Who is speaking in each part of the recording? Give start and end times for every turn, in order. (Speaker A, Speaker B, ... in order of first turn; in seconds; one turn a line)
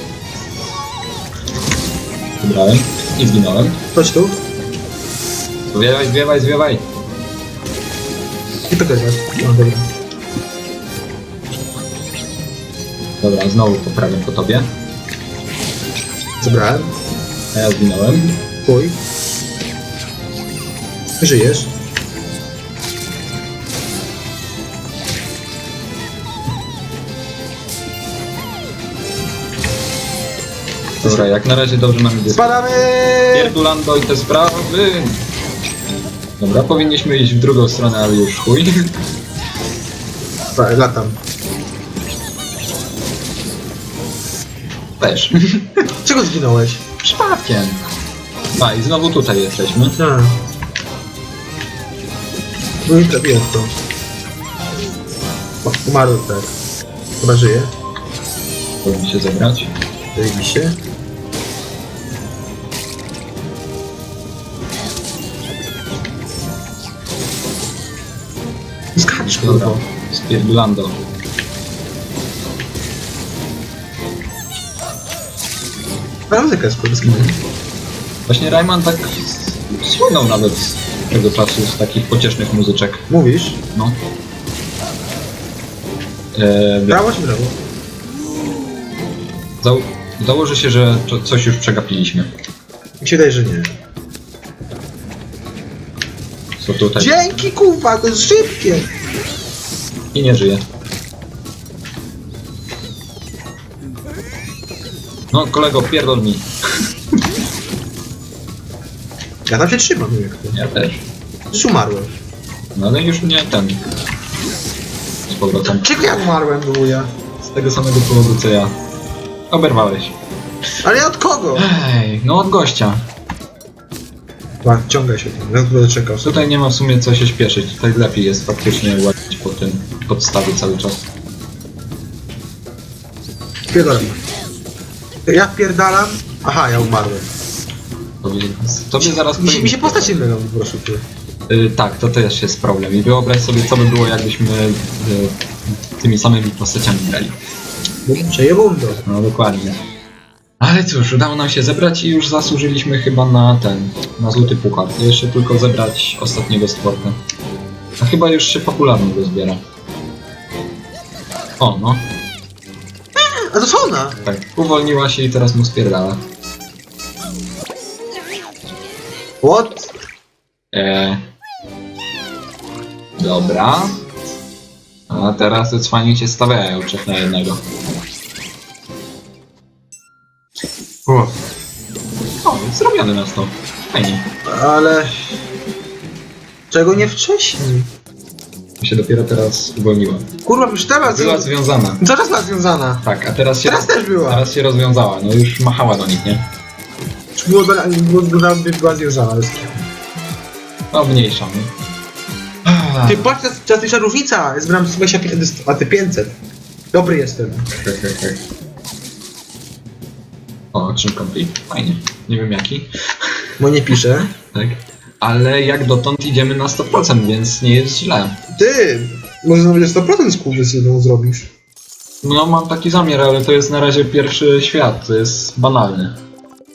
Speaker A: 2.4-3.8
Speaker B: 4.0-4.4
Speaker A: 5.7-6.8
Speaker B: 8.7-9.9
Speaker A: 13.2-14.7
Speaker B: 16.4-16.9
Speaker A: 17.5-18.4
Speaker B: 18.7-19.0
Speaker B: 21.2-21.7
Speaker A: 31.0-32.5
Speaker B: 32.3-33.6
Speaker A: 33.3-35.2
Speaker A: 36.4-38.8
Speaker B: 40.5-41.2
Speaker A: 45.0-45.9
Speaker B: 46.0-46.8
Speaker A: 47.0-47.9
Speaker A: 48.6-50.0
Speaker B: 50.0-50.4
Speaker B: 52.9-53.7
Speaker B: 55.6-56.5
Speaker B: 57.2-57.7
Speaker A: 58.8-59.7
Speaker B: 60.1-60.8
Speaker B: 69.0-69.8
Speaker A: 69.2-71.0
Speaker B: 76.3-77.4
Speaker A: 77.0-77.4
Speaker A: 78.3-83.0
Speaker B: 83.1-83.6
Speaker A: 83.7-84.0
Speaker A: 86.3-87.0
Speaker B: 86.9-87.6
Speaker A: 89.6-92.3
Speaker B: 93.0-93.7
Speaker A: 96.6-97.5
Speaker B: 97.0-98.9
Speaker A: 100.1-100.6
Speaker A: 105.3-106.5
Speaker B: 109.5-110.6
Speaker A: 110.5-111.0
Speaker B: 111.5-112.2
Speaker A: 112.8-113.8
Speaker A: 115.3-116.0
Speaker B: 115.7-117.1
Speaker A: 117.4-118.7
Speaker A: 119.5-120.1
Speaker B: 120.8-121.7
Speaker A: 121.6-123.0
Speaker B: 124.6-126.5
Speaker A: 126.2-131.0
Speaker B: 133.7-134.2
Speaker B: 135.3-137.3
Speaker A: 138.2-140.3
Speaker B: 139.0-141.1
Speaker A: 141.5-147.4
Speaker B: 148.1-149.0
Speaker A: 149.1-149.8
Speaker A: 150.6-157.2
Speaker A: 158.0-159.6
Speaker A: 161.6-162.1
Speaker B: 163.2-164.2
Speaker A: 164.2-166.2
Speaker B: 169.4-169.9
Speaker A: 170.7-171.2
Speaker A: 173.2-174.0
Speaker A: 175.1-177.6
Speaker B: 181.1-181.4
Speaker A: 182.4-184.3
Speaker B: 184.4-185.4
Speaker B: 186.7-187.9
Speaker A: 188.8-190.3
Speaker B: 190.4-191.5
Speaker A: 191.1-192.0
Speaker B: 192.0-193.0
Speaker A: 193.0-196.4
Speaker B: 193.6-194.5
Speaker B: 197.4-199.8
Speaker A: 200.9-201.7
Speaker A: 202.7-203.3
Speaker B: 203.1-206.4
Speaker B: 206.9-207.7
Speaker A: 207.7-208.4
Speaker A: 210.7-212.9
Speaker B: 213.6-214.3
Speaker A: 214.5-218.4
Speaker B: 218.5-221.5
Speaker A: 222.2-226.2